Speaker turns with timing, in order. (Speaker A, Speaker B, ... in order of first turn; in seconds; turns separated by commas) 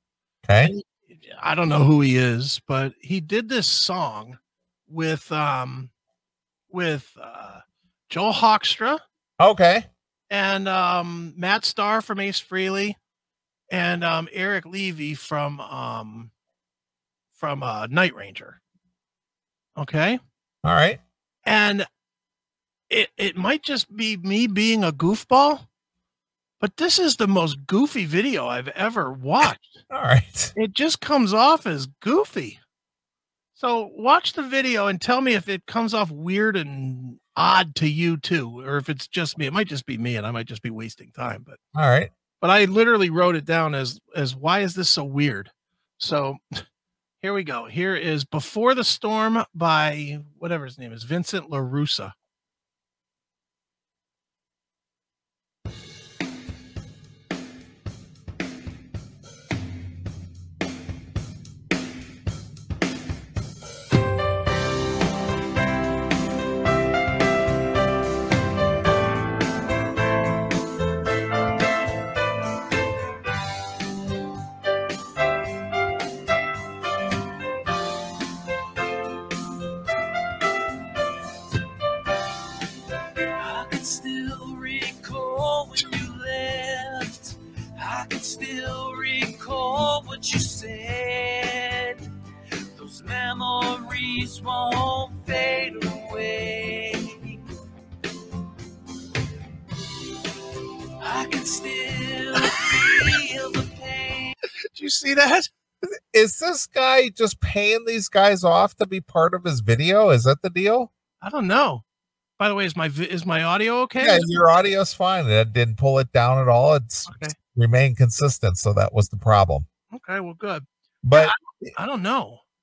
Speaker A: 0.4-0.7, Speaker B: 0.6-5.9, Speaker B: 6.7-9.0, Speaker A: 9.4-9.9, Speaker B: 10.3-13.0, Speaker B: 13.7-16.3, Speaker B: 17.3-18.6, Speaker B: 19.8-20.2, Speaker A: 20.6-21.0, Speaker B: 21.4-21.9, Speaker B: 22.9-25.6, Speaker B: 26.6-29.8, Speaker A: 29.9-30.5, Speaker B: 30.5-32.6, Speaker B: 33.5-41.6, Speaker A: 41.7-42.1, Speaker B: 42.4-46.6, Speaker B: 47.2-52.1, Speaker C: 83.3-92.0, Speaker C: 92.7-97.4, Speaker C: 101.0-104.3, Speaker B: 104.7-105.5, Speaker A: 106.1-110.9, Speaker B: 111.2-111.8, Speaker B: 112.4-114.3, Speaker A: 114.0-119.7, Speaker B: 117.1-117.3, Speaker B: 119.9-122.4, Speaker A: 121.0-121.7